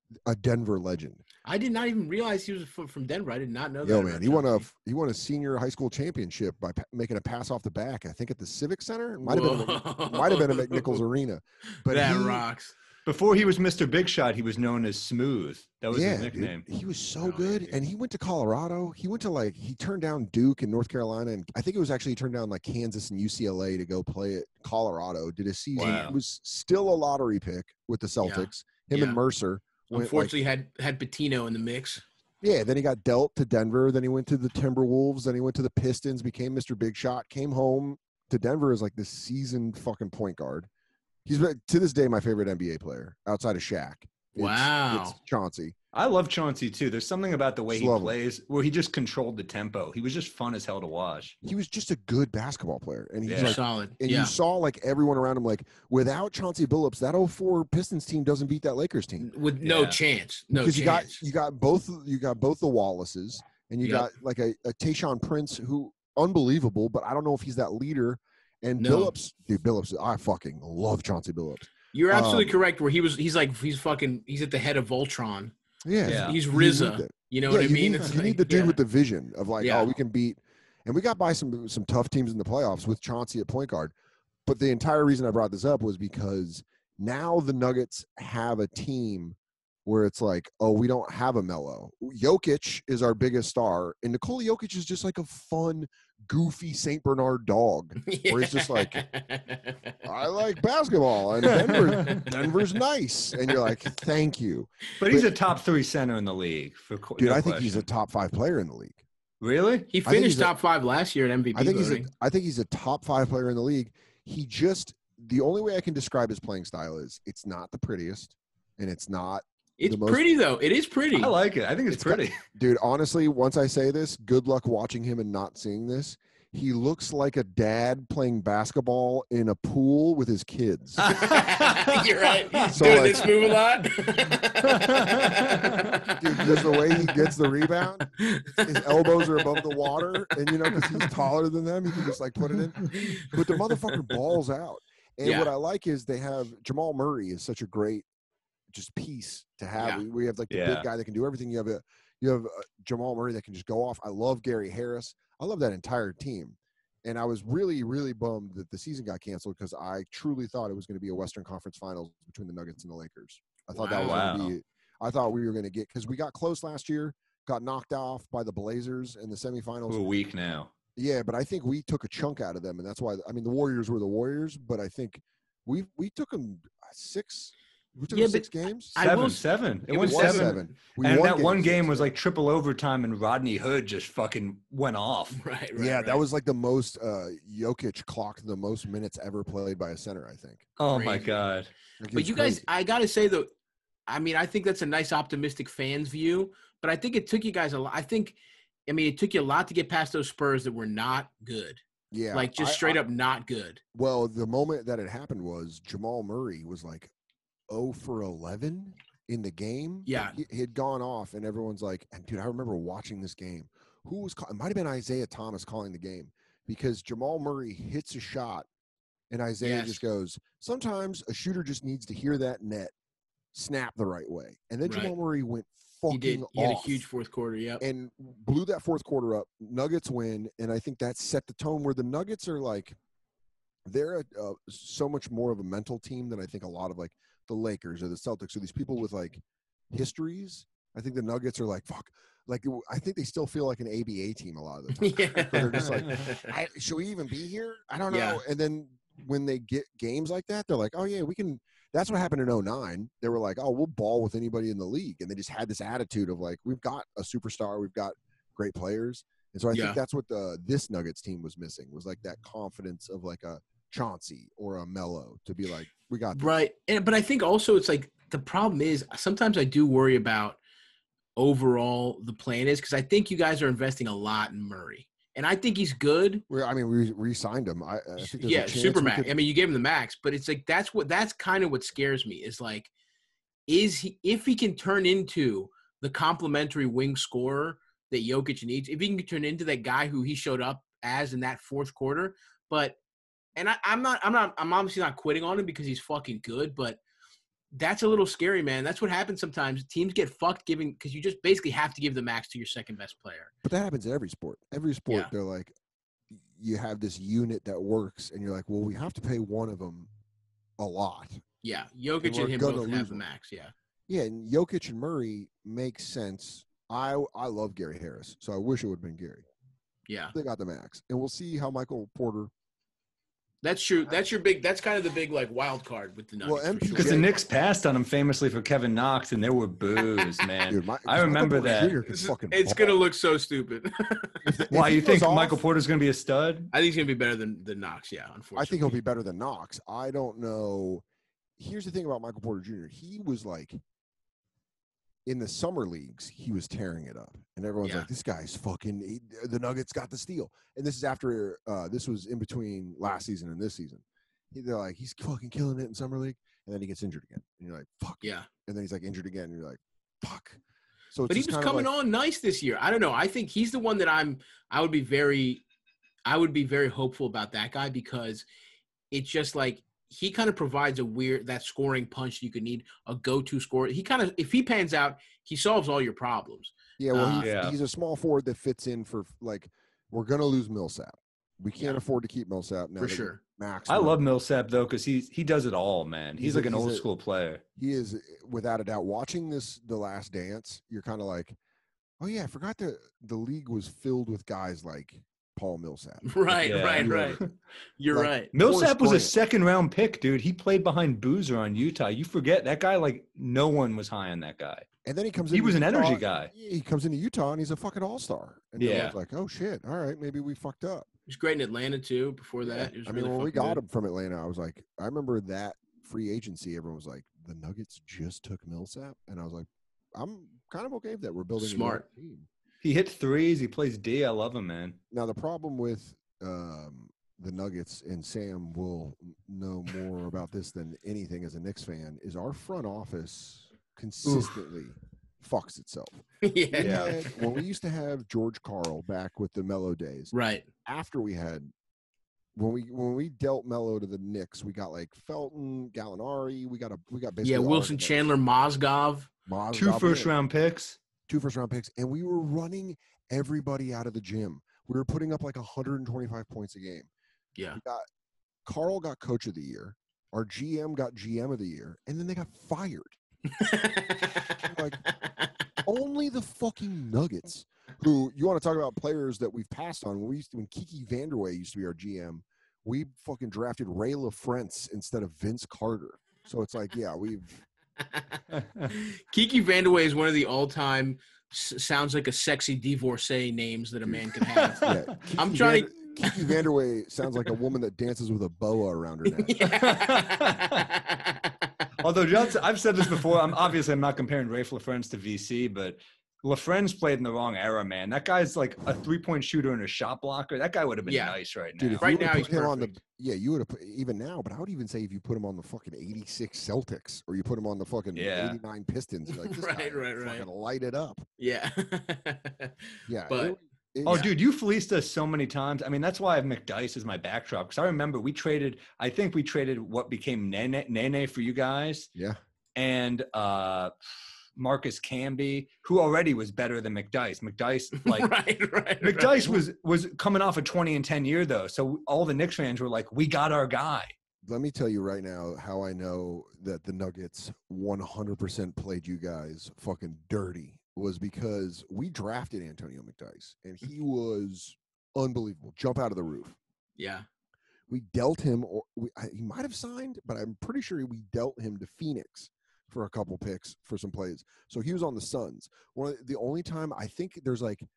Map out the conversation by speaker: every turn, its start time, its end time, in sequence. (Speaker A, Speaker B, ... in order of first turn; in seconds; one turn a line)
Speaker A: 0.2-1.2
Speaker B: 1.4-4.7
Speaker A: 3.8-12.4
Speaker B: 9.2-11.0
Speaker B: 11.8-12.7
Speaker C: 13.1-16.6
Speaker A: 15.9-30.3
Speaker B: 17.2-17.8
Speaker C: 25.8-26.2
Speaker B: 25.8-26.1
Speaker B: 28.2-29.2
Speaker B: 29.9-32.0
Speaker A: 32.4-40.7
Speaker A: 41.3-45.8
Speaker B: 44.4-45.2
Speaker C: 45.9-51.4
Speaker A: 47.7-48.1
Speaker A: 51.4-59.3
Speaker C: 53.3-53.6
Speaker B: 53.4-54.3
Speaker B: 59.2-61.2
Speaker C: 59.6-60.0
Speaker A: 60.6-72.5
Speaker B: 63.8-64.1
Speaker B: 68.8-69.1
Speaker B: 71.9-75.5
Speaker A: 75.8-83.9
Speaker C: 76.1-76.4
Speaker B: 76.1-78.8
Speaker B: 79.6-80.0
Speaker A: 84.5-99.0
Speaker B: 98.1-100.0
Speaker A: 100.0-105.3
Speaker B: 101.7-102.6
Speaker C: 105.0-107.9
Speaker A: 107.2-109.0
Speaker C: 109.4-109.9
Speaker B: 109.9-112.1
Speaker A: 110.0-110.5
Speaker A: 111.5-120.3
Speaker B: 119.8-121.3
Speaker C: 121.2-122.4
Speaker A: 121.9-131.1
Speaker B: 131.1-137.1
Speaker C: 131.2-131.8
Speaker A: 132.7-133.3
Speaker A: 136.2-148.1
Speaker B: 138.2-140.0
Speaker B: 142.9-144.0
Speaker B: 145.2-145.5
Speaker A: 148.7-170.1
Speaker B: 149.8-150.0
Speaker C: 150.5-150.9
Speaker B: 163.8-164.3
Speaker C: 164.0-164.6
Speaker C: 169.9-170.7
Speaker A: 171.0-179.0
Speaker B: 178.1-180.7
Speaker C: 179.0-185.4
Speaker A: 179.9-182.1
Speaker B: 185.3-186.2
Speaker A: 185.8-190.7
Speaker C: 190.8-191.7
Speaker B: 190.9-191.3
Speaker A: 192.0-192.6
Speaker B: 192.1-193.5
Speaker B: 194.1-198.4
Speaker B: 198.9-201.8
Speaker A: 202.1-203.0
Speaker B: 202.3-203.8
Speaker A: 203.9-207.1
Speaker A: 207.7-218.7
Speaker B: 210.1-210.4
Speaker A: 219.3-222.9
Speaker B: 219.6-220.0
Speaker A: 223.5-227.1
Speaker B: 224.8-225.2
Speaker B: 226.1-227.8
Speaker A: 227.8-233.0
Speaker A: 233.9-266.5
Speaker B: 245.0-246.5
Speaker B: 248.1-248.4
Speaker B: 259.7-260.0
Speaker B: 266.3-270.6
Speaker B: 271.4-276.4
Speaker A: 276.5-279.3
Speaker B: 278.2-282.9
Speaker B: 283.7-293.0
Speaker B: 293.6-297.0
Speaker B: 297.7-303.5
Speaker A: 303.6-305.7
Speaker A: 306.3-310.1
Speaker A: 310.8-311.4
Speaker B: 311.6-313.7
Speaker A: 312.2-313.2
Speaker A: 314.1-319.5
Speaker B: 320.1-320.3
Speaker A: 320.3-322.5
Speaker B: 323.6-327.3
Speaker A: 326.4-327.4
Speaker C: 326.9-331.9
Speaker A: 330.7-333.0
Speaker B: 332.1-334.5
Speaker A: 334.4-335.6
Speaker C: 334.7-336.7
Speaker B: 336.7-339.0
Speaker A: 338.6-341.0
Speaker A: 341.6-343.8
Speaker A: 345.3-360.6
Speaker B: 358.2-358.5
Speaker A: 361.1-361.9
Speaker B: 361.3-365.6
Speaker B: 366.3-368.5
Speaker B: 369.1-377.5
Speaker A: 377.0-384.2
Speaker C: 377.4-377.8
Speaker B: 383.0-383.4
Speaker C: 383.9-387.6
Speaker A: 386.4-387.1
Speaker A: 387.8-391.6
Speaker A: 392.2-397.4
Speaker B: 396.3-397.4
Speaker C: 396.6-397.5
Speaker B: 398.0-398.5
Speaker A: 398.1-399.4
Speaker C: 398.5-404.9
Speaker A: 405.1-411.1
Speaker C: 405.5-406.5
Speaker C: 408.8-409.2
Speaker B: 411.3-413.8
Speaker A: 412.6-422.5
Speaker B: 421.6-422.1
Speaker C: 422.8-425.0
Speaker A: 425.1-440.3
Speaker B: 436.4-437.4
Speaker C: 436.8-437.1
Speaker B: 440.3-440.7
Speaker A: 440.9-441.7
Speaker A: 442.6-448.3
Speaker B: 447.4-449.3
Speaker A: 449.5-450.3
Speaker C: 449.7-451.0
Speaker A: 451.3-457.1
Speaker A: 457.8-458.1
Speaker A: 458.6-463.2
Speaker B: 463.5-464.5
Speaker A: 464.6-465.1
Speaker A: 465.8-477.6
Speaker C: 478.5-478.9
Speaker B: 478.9-486.6
Speaker A: 484.8-489.7
Speaker B: 489.3-491.9
Speaker C: 489.8-490.8
Speaker C: 492.0-502.1
Speaker B: 501.1-501.4
Speaker A: 501.8-511.2
Speaker B: 502.0-503.0
Speaker C: 508.1-508.6
Speaker B: 509.3-510.5
Speaker B: 511.4-513.5
Speaker A: 513.1-514.3
Speaker C: 514.0-522.1
Speaker B: 514.1-514.3
Speaker C: 522.8-528.3
Speaker B: 528.0-529.6
Speaker C: 529.0-534.1
Speaker A: 534.4-546.6
Speaker B: 547.0-547.3
Speaker A: 547.9-557.9